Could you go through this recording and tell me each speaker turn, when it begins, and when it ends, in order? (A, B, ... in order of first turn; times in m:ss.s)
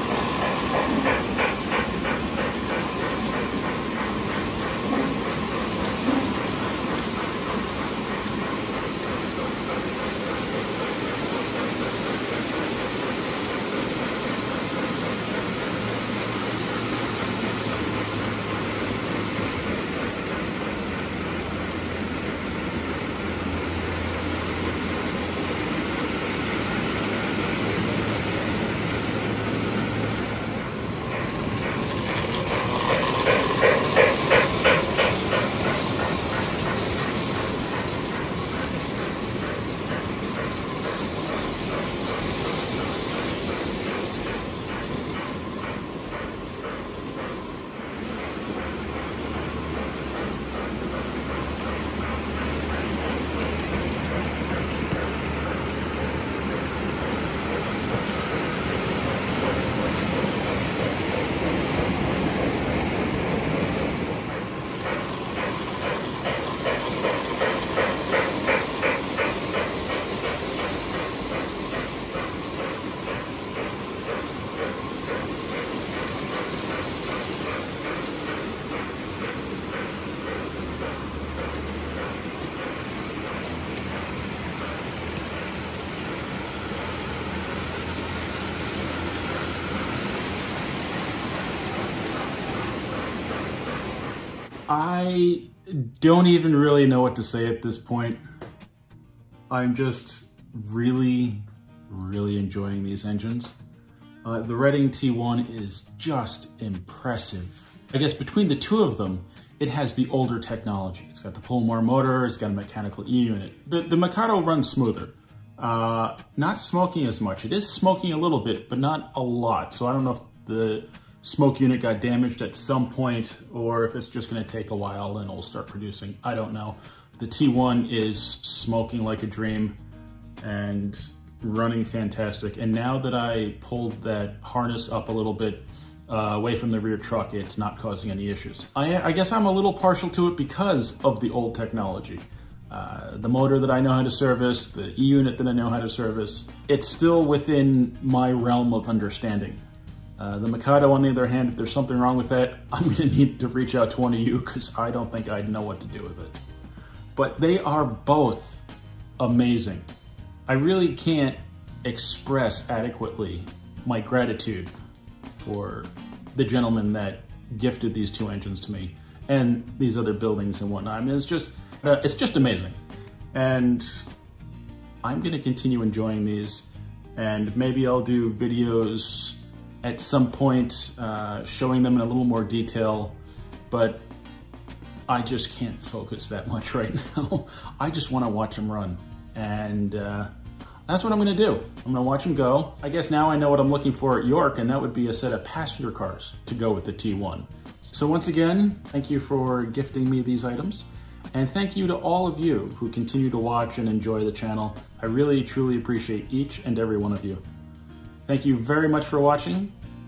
1:34.7-1:38.2 A
1:39.5-1:43.6 A
1:44.2-2:09.8 A
2:10.4-2:29.6 A
2:30.2-2:36.4 A
2:37.2-2:38.7 A
2:39.2-2:39.9 A
2:40.5-2:44.7 A
2:45.4-2:52.8 A
2:53.3-2:54.0 A
2:55.0-3:03.2 A
3:03.7-3:04.1 A
3:05.1-3:10.3 A
3:10.9-3:27.4 A
3:28.3-3:29.7 A